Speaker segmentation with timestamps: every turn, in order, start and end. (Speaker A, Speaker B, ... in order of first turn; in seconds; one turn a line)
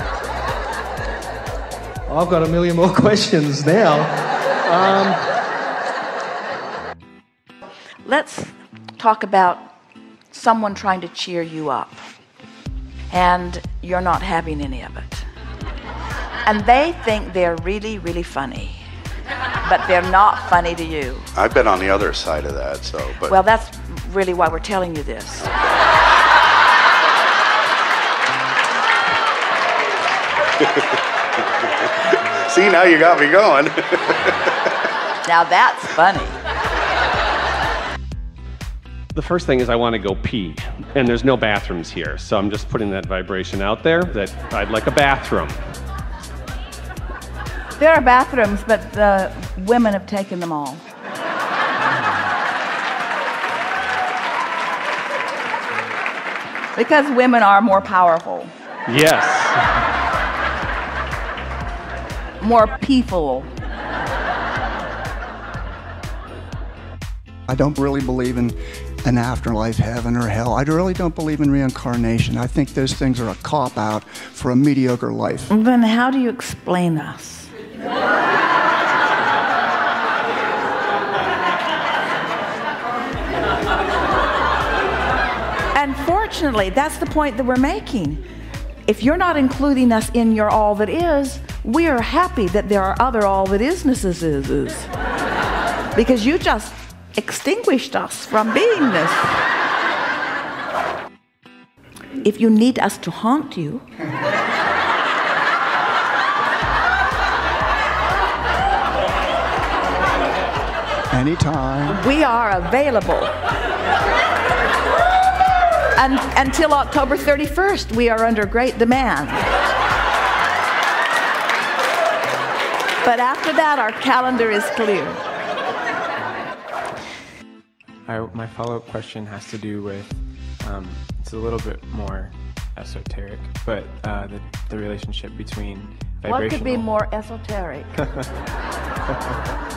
Speaker A: 2.1-5.2
Speaker B: 8.0-9.7
Speaker B: 10.3-12.0
Speaker B: 13.1-15.3
Speaker B: 16.4-18.8
Speaker B: 19.6-21.3
Speaker C: 21.4-23.3
Speaker B: 23.2-25.5
Speaker C: 31.8-34.5
Speaker B: 35.2-36.3
Speaker D: 39.1-45.6
Speaker B: 47.8-50.8
Speaker B: 56.7-58.5
Speaker D: 58.9-59.6
Speaker B: 62.4-63.5
Speaker E: 67.5-75.5
Speaker B: 75.5-77.5
Speaker B: 85.7-88.2
Speaker B: 88.8-94.9
Speaker B: 95.9-99.4
Speaker B: 102.2-103.8
Speaker E: 111.1-112.0
Speaker B: 111.9-113.3
Speaker B: 116.0-119.4
Speaker B: 123.0-125.2
Speaker F: 128.1-136.9
Speaker B: 136.2-137.9